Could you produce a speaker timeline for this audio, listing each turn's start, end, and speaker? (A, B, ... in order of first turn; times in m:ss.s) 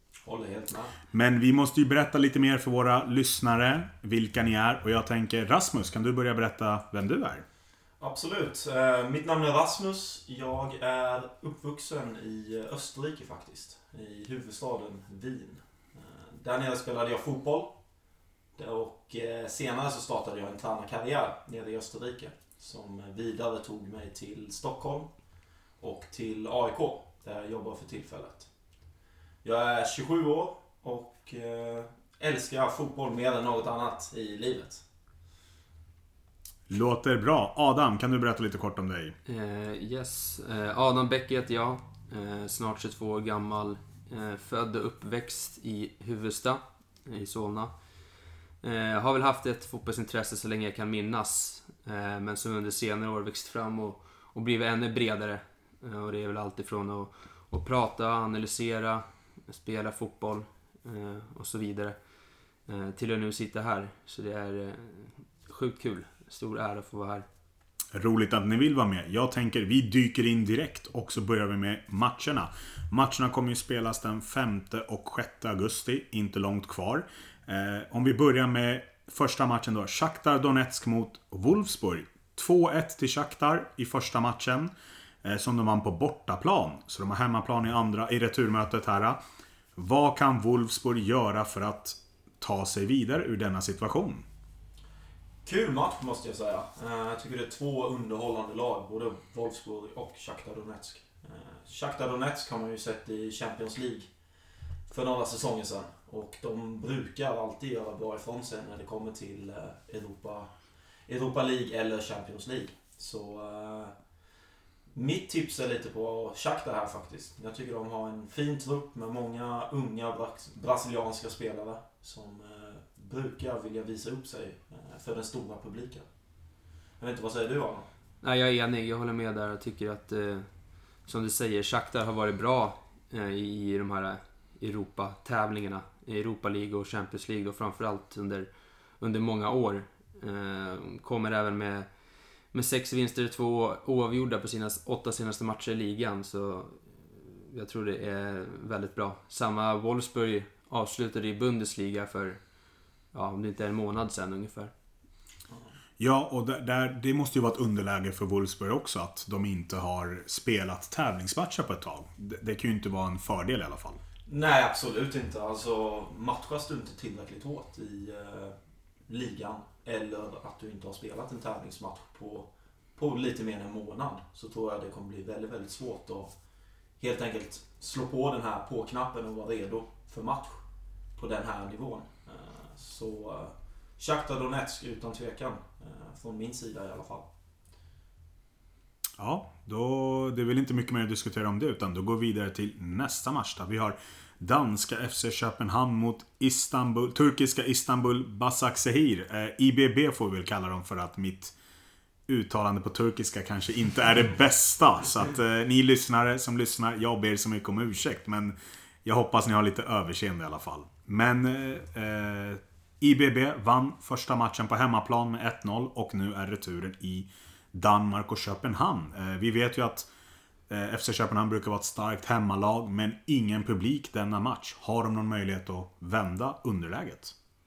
0:00.2-0:01.0 A
0:01.1-0:07.4 B
0:08.0-0:17.8 A
0:18.6-0:25.1 A
0:25.8-0:28.5 A
0:29.4-0:34.8 A
0:36.7-0:39.2 B
0:39.3-0:47.7 C
0:48.6-1:02.0 C
1:02.6-1:07.3 C
1:07.9-1:24.7 B
1:25.2-1:29.2 B
1:29.8-1:34.2 B
1:35.4-1:44.1 A
1:44.9-1:50.5 A
1:51.1-1:54.0 A
1:54.9-2:06.1 A
2:07.0-2:07.9 A
2:08.2-2:10.5 C
2:11.0-2:21.9 C
2:22.4-2:32.4 C
2:33.1-2:34.7 C
2:36.0-2:44.0 B
2:44.3-2:48.6 A
2:49.1-2:56.4 A
2:57.0-3:00.6 A
3:01.2-3:07.3 A
3:09.2-3:21.5 B
3:22.3-3:40.1 B
3:40.7-3:47.4 B